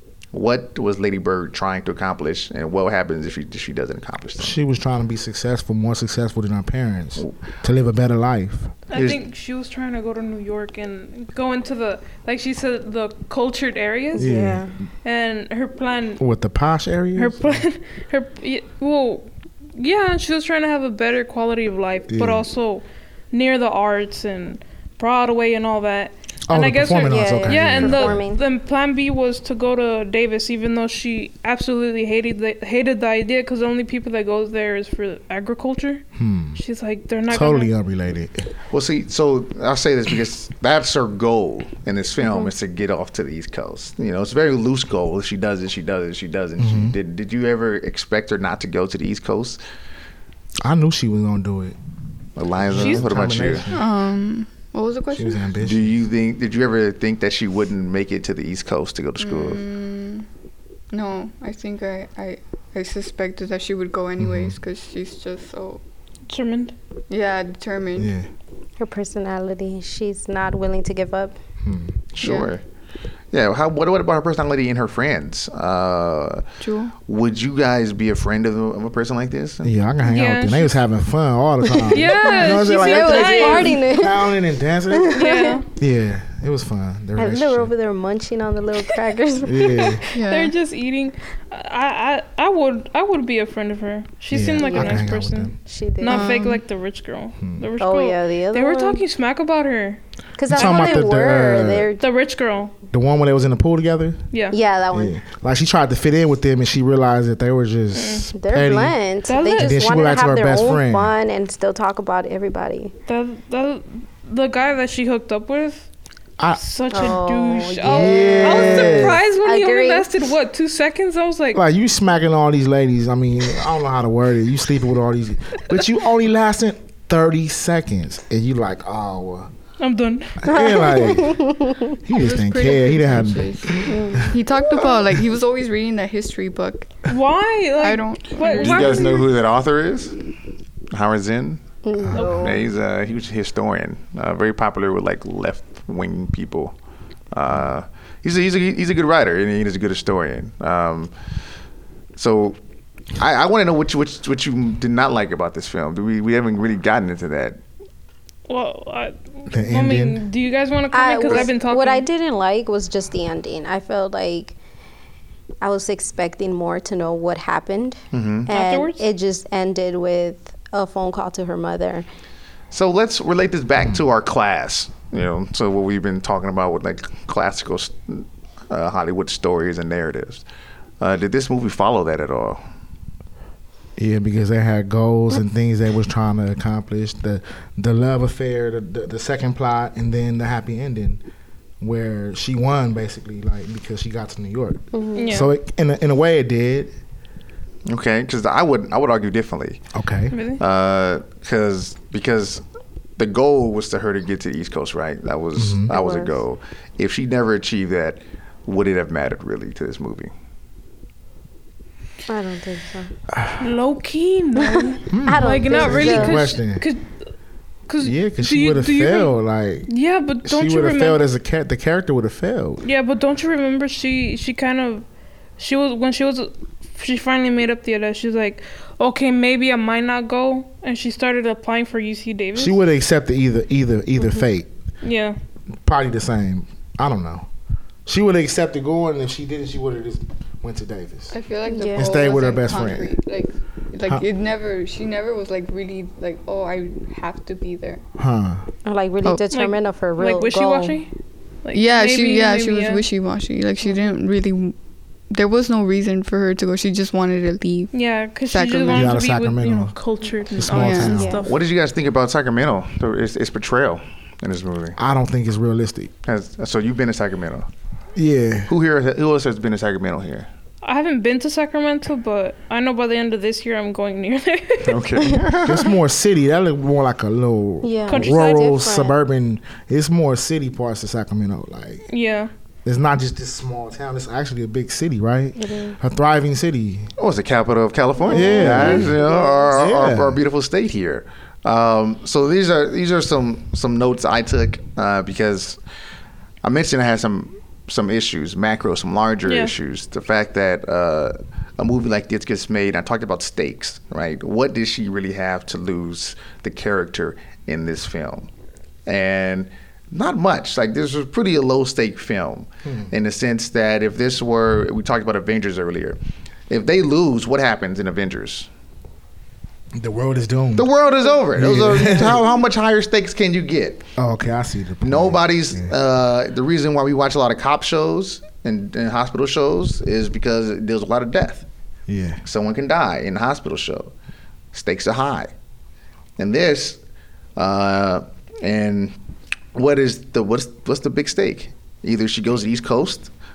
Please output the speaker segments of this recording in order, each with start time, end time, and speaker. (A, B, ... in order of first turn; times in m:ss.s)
0:00.3-0:04.6 A
0:04.4-0:08.7 B
0:08.9-0:14.3 C
0:08.9-0:09.2 A
0:14.1-0:14.7 B
0:14.2-0:14.7 D
0:15.0-0:16.2 C
0:16.2-0:17.6 B
0:17.1-0:36.0 C
0:22.1-0:22.4 B
0:26.5-0:28.2 B
0:27.0-0:28.4 D
0:36.2-0:36.6 B
0:36.5-0:37.7 C
0:37.3-0:38.5 B
0:38.7-0:49.6 A
0:42.2-0:42.5 D
0:46.6-0:46.9 B
0:50.6-0:51.8 B
0:52.4-0:53.7 A
0:52.6-0:53.8 B
0:52.8-0:53.1 C
0:53.7-0:55.4 E
0:55.1-0:55.9 B
0:55.6-0:59.6 A
0:59.2-1:00.3 E
1:00.9-1:05.8 E
1:04.2-1:04.6 B
1:06.3-1:06.7 C
1:07.1-1:08.1 E
1:08.0-1:08.3 B
1:08.8-1:11.4 D
1:11.6-1:12.0 B
1:12.1-1:12.6 A
1:12.2-1:12.5 E
1:13.3-1:16.4 A
1:16.6-1:17.0 E
1:17.0-1:19.7 A
1:19.6-1:27.7 B
1:20.0-1:20.8 C
1:21.7-1:24.3 D
1:21.9-1:23.8 C
1:24.9-1:25.6 D
1:25.1-1:25.6 C
1:27.2-1:30.2 D
1:29.4-1:30.0 B
1:30.1-1:30.5 E
1:30.2-1:40.0 C
1:34.3-1:35.6 B
1:34.6-1:35.1 D
1:35.6-1:36.4 D
1:36.1-1:36.6 E
1:37.4-1:37.7 B
1:37.8-1:39.0 D
1:40.4-1:42.1 D
1:40.5-1:41.9 B
1:40.6-1:41.1 C
1:42.0-1:42.7 C
1:42.9-1:44.2 B
1:44.3-1:44.6 C
1:44.5-1:45.2 D
1:44.9-1:49.0 B
1:47.9-1:48.3 C
1:48.3-1:52.9 D
1:49.3-1:49.8 C
1:49.5-1:51.1 B
1:53.1-1:55.9 C
1:56.5-2:01.6 C
1:56.9-2:00.1 D
1:57.8-1:59.2 B
2:01.5-2:09.5 B
2:09.8-2:10.9 C
2:10.4-2:11.5 B
2:10.5-2:12.0 D
2:12.0-2:14.3 B
2:12.1-2:16.9 E
2:13.8-2:14.3 D
2:17.1-2:19.3 C
2:17.8-2:19.2 E
2:18.4-2:20.1 A
2:20.9-2:21.6 A
2:21.8-2:22.6 D
2:22.1-2:22.6 C
2:22.3-2:26.7 A
2:27.3-2:31.1 A
2:32.2-2:32.6 A
2:33.2-2:37.6 A
2:38.5-2:42.1 C
2:39.5-2:40.2 B
2:40.9-2:44.6 D
2:45.6-2:52.0 D
2:48.1-2:48.5 A
2:48.5-2:49.0 C
2:52.7-3:00.4 A
3:01.0-3:02.6 A
3:04.0-3:11.2 B
3:11.8-3:16.9 B
3:14.9-3:15.3 D
3:15.1-3:15.5 C
3:17.9-3:19.8 A
3:19.9-3:20.3 B
3:20.3-3:20.6 C
3:20.6-3:22.6 A
3:23.2-3:30.3 A
3:25.6-3:25.9 B
3:25.9-3:26.3 D
3:32.3-3:33.1 D
3:33.6-3:37.1 C
3:34.8-3:36.5 D
3:35.1-3:36.8 B
3:37.9-3:39.3 C
3:38.0-3:39.9 B
3:39.9-3:41.2 C
3:40.4-3:42.8 B
3:42.8-3:45.0 C
3:45.6-3:52.8 C
3:52.5-3:54.7 B
3:55.0-3:55.4 C
3:55.8-3:57.4 B
3:58.0-4:01.3 B
4:01.3-4:08.0 E
4:01.6-4:02.3 D
4:02.0-4:03.2 B
4:08.2-4:08.7 B
4:08.8-4:11.0 D
4:09.5-4:11.1 C
4:11.6-4:13.0 C
4:11.7-4:14.8 E
4:15.3-4:17.9 E
4:17.9-4:21.6 C
4:18.5-4:19.1 E
4:18.9-4:19.9 B
4:20.6-4:21.4 B
4:20.7-4:21.2 E
4:21.1-4:21.4 D
4:21.4-4:25.0 A
4:25.0-4:26.1 B
4:26.2-4:27.7 A
4:28.1-4:28.7 B
4:28.7-4:30.5 A
4:30.8-4:35.0 C
4:34.8-4:35.8 A
4:35.5-4:42.0 B
4:37.8-4:39.2 D
4:38.1-4:38.8 C
4:42.1-4:42.5 C
4:42.8-4:47.1 B
4:45.6-4:46.0 D
4:47.2-4:55.8 A
4:48.2-4:49.7 D
4:48.3-4:49.2 B
4:49.7-4:50.4 B
4:56.6-5:08.5 A
4:59.4-4:59.7 C
5:09.1-5:16.2 A
5:12.8-5:13.1 B
5:16.7-5:18.7 A
5:19.9-5:20.9 B
5:20.8-5:24.0 A
5:21.5-5:22.4 B
5:24.2-5:25.9 B
5:25.0-5:31.6 A
5:32.1-5:32.4 B
5:32.4-5:34.1 A
5:34.7-5:35.5 A
5:36.4-5:37.0 A
5:37.6-5:39.1 A
5:39.7-5:43.3 A